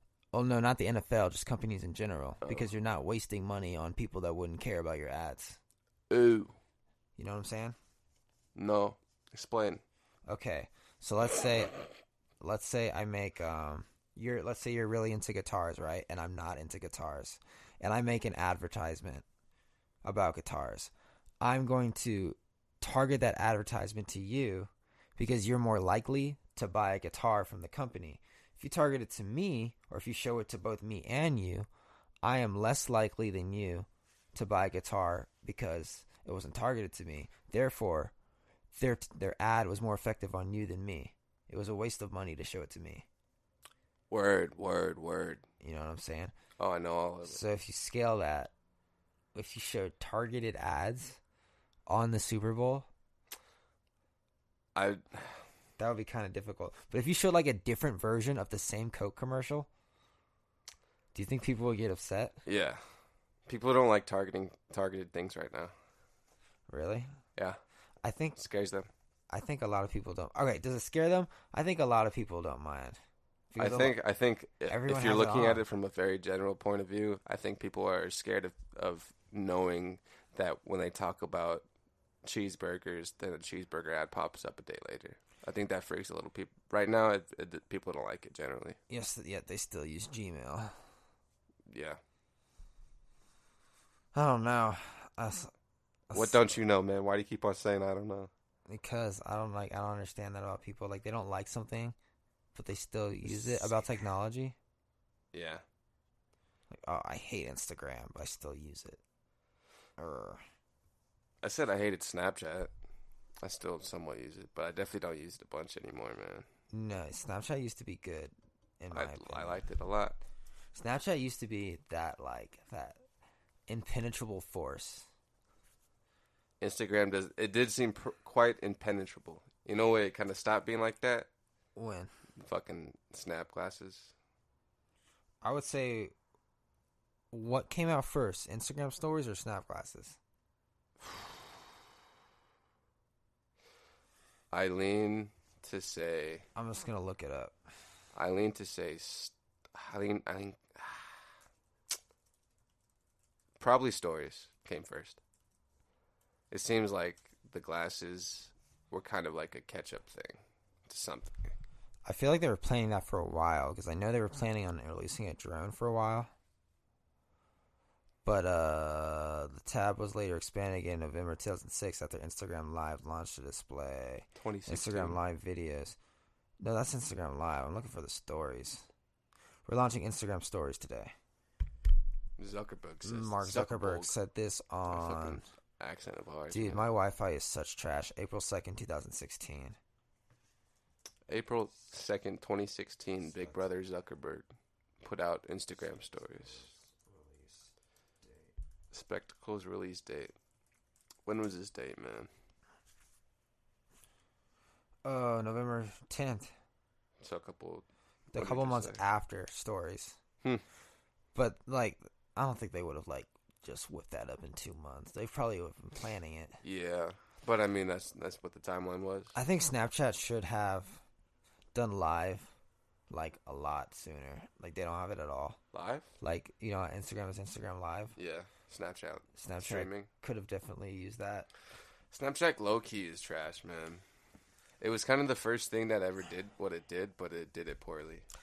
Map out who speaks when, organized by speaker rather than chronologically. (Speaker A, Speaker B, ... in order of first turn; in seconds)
Speaker A: 0.3-5.6, 7.2-7.8, 10.3-11.8, 12.4-19.2, 20.0-31.7, 32.2-38.1, 38.7-43.0, 45.6-46.3, 47.2-48.5, 49.3-51.2, 51.9-52.9, 55.8-59.7, 61.1-62.4, 66.7-67.1, 68.0-68.4, 69.3-73.0, 73.5-74.0, 74.7-75.6, 88.9-90.7, 94.1-95.5, 96.1-96.4, 98.7-101.9, 102.5-104.5, 106.7-109.0, 110.0-110.4, 116.7-119.7, 120.7-123.0, 123.7-125.1, 131.8-132.1, 135.4-136.1, 137.3-140.2, 146.6-147.6, 162.0-166.3, 168.2-175.9, 176.6-178.9, 179.7-181.1, 183.0-185.4, 186.5-189.8, 205.0-206.5, 208.3-210.2, 211.3-216.6, 219.3-221.0, 221.7-222.5, 223.1-225.6, 226.2-228.2, 229.3-231.5
Speaker B: 2.4-2.7, 6.1-6.5, 8.5-9.8, 44.1-45.4, 46.6-47.4, 54.7-55.4, 62.5-62.8, 63.5-65.7, 68.4-68.9, 73.6-81.6, 82.2-88.8, 91.7-92.0, 96.1-98.3, 103.2-103.8, 105.3-105.6, 111.4-112.7, 113.4-116.5, 118.9-120.2, 126.6-131.3, 132.4-134.1, 144.5-146.4, 148.1-151.2, 153.6-155.2, 156.5-161.5, 174.3-175.2, 182.4-184.1, 184.9-186.8, 191.3-194.5, 195.0-196.7, 198.9-200.3, 201.2-202.3, 207.2-209.0, 216.6-219.3, 225.7-226.1, 228.2-230.1, 232.1-234.0, 234.8-238.2